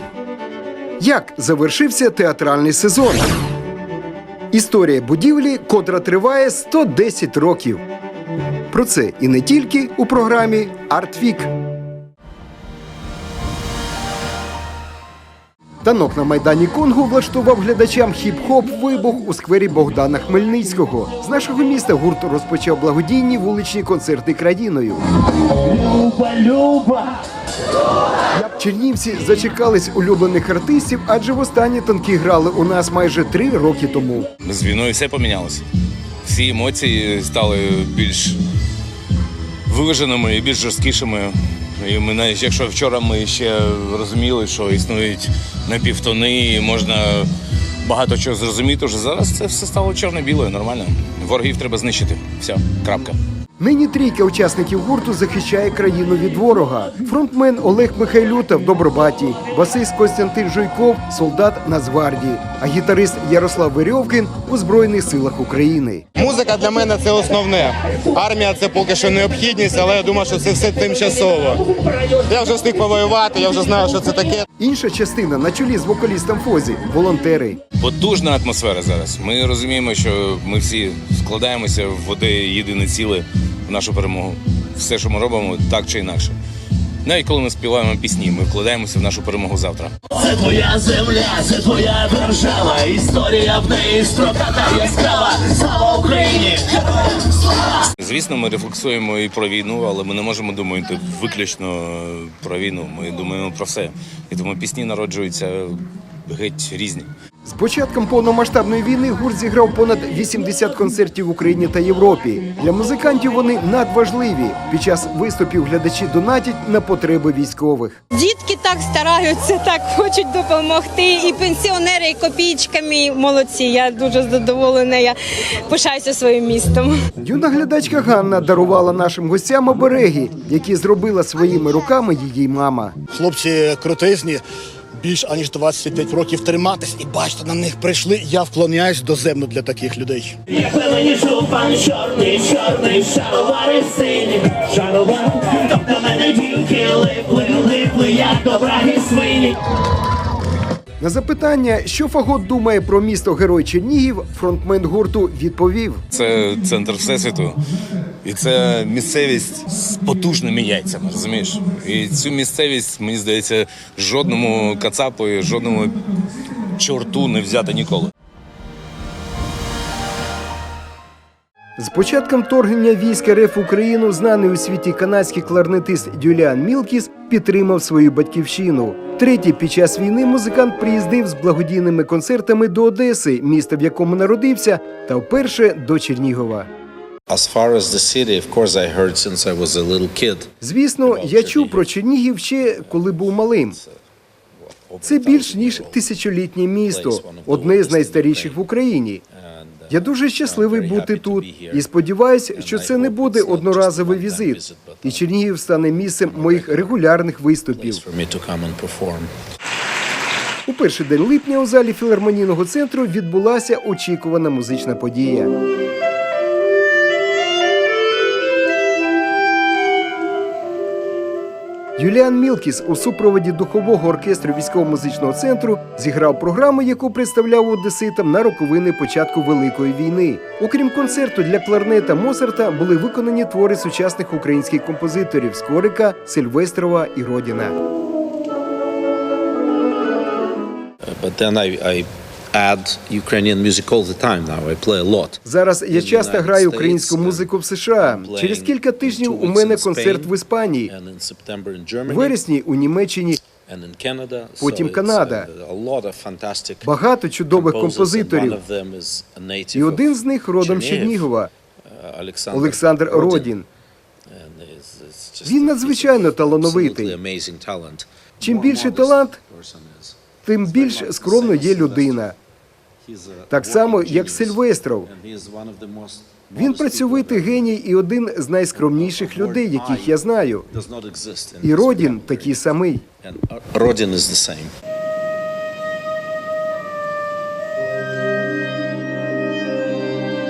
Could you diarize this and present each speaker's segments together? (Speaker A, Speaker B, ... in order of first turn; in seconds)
Speaker A: 1.0-3.3, 4.5-7.8, 8.7-11.5, 15.8-25.0, 28.3-34.3, 53.6-66.0, 74.6-77.6, 107.4-118.0, 127.2-132.9, 151.0-156.0, 171.8-186.7, 190.6-193.8, 195.0-199.2, 199.9-208.0, 210.7-215.5, 222.0-237.7, 245.4-250.9, 252.1-253.4, 254.6-255.5, 256.8-258.6, 259.7-261.5, 262.5-263.6, 265.4-267.2, 268.4-269.3, 270.5-272.3, 273.5-275.1, 276.5-280.6, 281.6-283.0
Speaker B: 25.7-27.1, 90.1-96.9, 140.5-149.6
Speaker C: 34.4-35.6, 36.2-38.4, 39.7-47.3, 47.8-53.2, 77.8-86.3, 87.0-89.9, 98.0-107.1, 156.1-157.6, 158.2-166.0, 166.8-168.1
Speaker D: 66.2-74.4
Speaker E: 118.1-127.0
Speaker F: 133.1-134.4, 135.0-140.3
Speaker G: 187.3-190.5, 191.0-192.0, 192.6-194.0, 194.6-196.1, 196.8-198.6, 199.3-201.9, 202.5-205.3, 206.2-207.2, 207.7-209.3, 241.1-245.4, 245.9-252.4, 253.5-256.9, 257.5-261.3, 261.8-263.5, 264.3-272.3, 273.0-277.7, 278.7-284.7